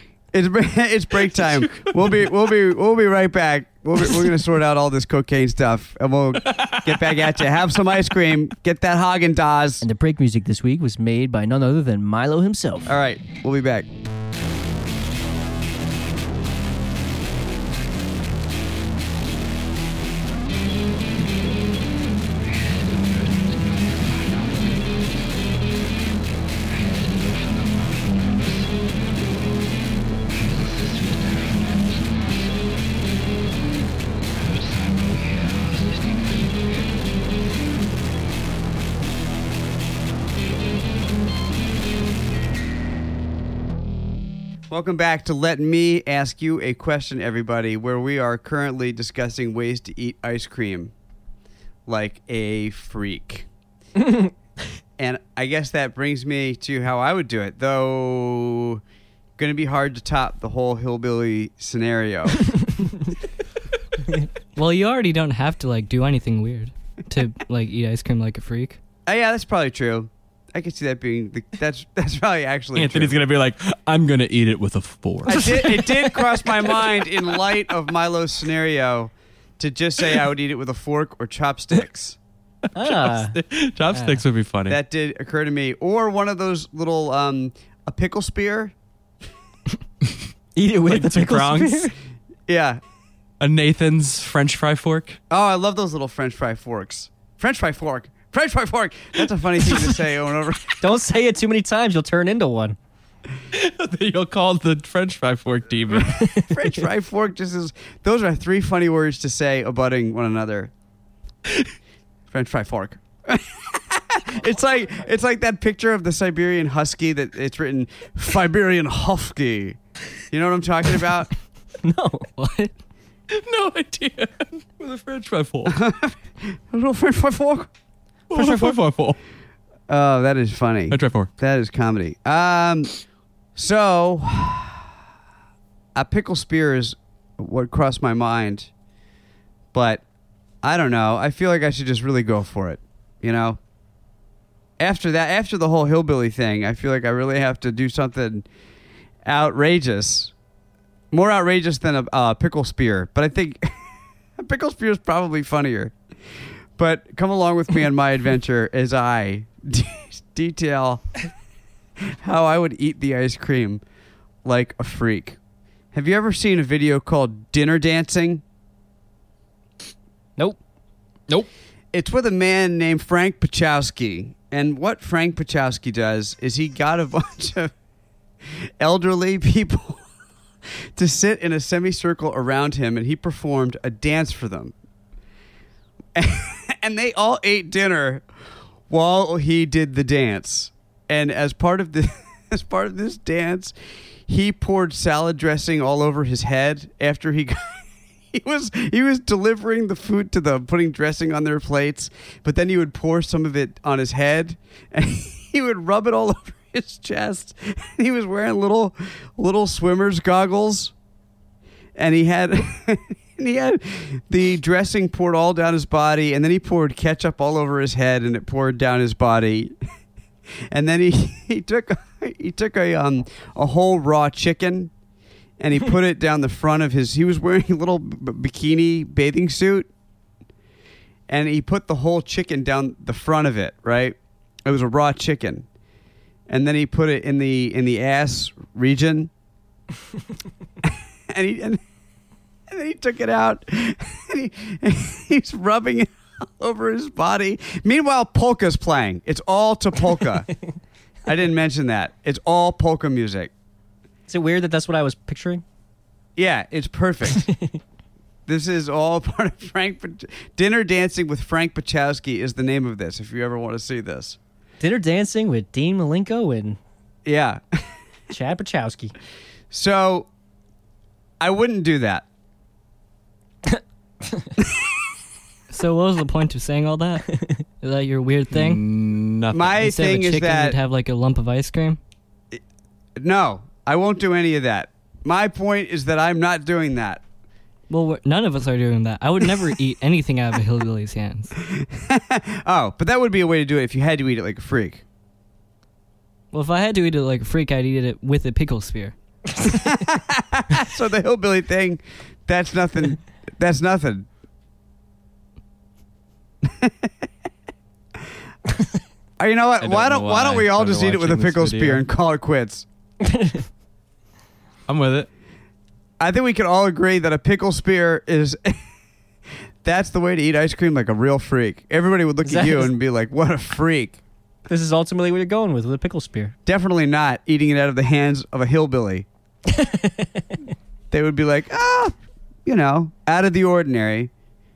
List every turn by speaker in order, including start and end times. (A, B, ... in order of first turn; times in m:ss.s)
0:00.3-0:09.8 A
0:06.5-0:06.8 B
0:09.8-0:12.9 C
0:12.9-0:13.9 A
0:44.7-0:50.9 A
0:51.9-0:53.5 A
0:54.0-0:54.3 C
0:55.0-0:58.8 A
0:59.4-1:02.6 A
1:04.6-1:08.8 D
1:09.1-1:13.2 A
1:12.8-1:16.0 B
1:15.2-1:22.2 A
1:22.7-1:23.4 C
1:22.8-1:24.8 B
1:23.9-1:24.2 D
1:24.7-1:28.7 A
1:30.6-1:31.9 C
1:30.9-1:31.9 B
1:32.5-1:32.8 A
1:33.4-1:35.2 B
1:35.3-1:40.8 A
1:40.8-1:42.8 C
1:43.5-1:46.3 B
1:46.1-1:46.7 C
1:46.4-1:50.7 A
1:52.3-1:59.8 A
2:00.3-2:01.3 A
2:01.8-2:02.3 C
2:02.4-2:02.7 D
2:03.3-2:05.8 B
2:05.6-2:07.7 A
2:08.3-2:09.2 B
2:08.3-2:08.7 A
2:09.9-2:12.9 A
2:10.9-2:11.3 B
2:13.6-2:14.8 A
2:15.9-2:18.7 A
2:19.7-2:20.0 A
2:20.6-2:23.6 A
2:24.8-2:28.4 A
2:29.2-2:30.3 A
2:31.1-2:33.8 A
2:34.4-2:35.9 A
2:36.8-2:41.1 A
2:42.0-2:43.8 A
2:44.4-2:45.4 A
2:45.9-2:48.4 A
2:51.9-2:57.7 A
2:58.8-3:00.0 A
3:01.0-3:04.7 A
3:06.1-3:08.3 A
3:08.9-3:13.7 A
3:14.3-3:30.9 A
3:32.0-3:39.8 A
3:40.7-3:44.9 A
3:45.6-3:49.9 A
3:51.3-3:55.7 A
3:56.5-3:59.3 A
4:00.8-4:01.8 A
4:02.7-4:10.5 A
4:11.3-4:13.5 A
4:14.3-4:15.6 C
4:16.4-4:17.5 A
4:17.4-4:17.8 C
4:18.5-4:24.4 A
4:24.8-4:26.8 C
4:27.2-4:27.8 A
4:28.3-4:29.1 C
4:29.7-4:30.3 A
4:31.4-4:32.2 A
4:33.7-4:34.5 C
4:35.7-4:38.8 D
4:37.3-4:37.6 C
4:38.5-4:39.8 B
4:39.5-4:40.8 A
4:39.8-4:42.0 D
4:43.2-4:47.2 A
4:47.9-4:51.5 D
4:51.7-4:55.0 A
4:56.5-4:59.7 D
4:59.6-5:04.3 A
5:06.6-5:07.1 A
5:09.4-5:12.9 A
5:09.8-5:12.0 B
5:13.2-5:13.6 C
5:14.9-5:15.3 B
5:16.2-5:18.8 A
5:19.8-5:24.2 A
5:22.4-5:22.9 C
5:24.7-5:26.5 C
5:26.6-5:29.3 A
5:29.7-5:30.5 C
5:31.1-5:32.1 A
5:32.6-5:34.3 A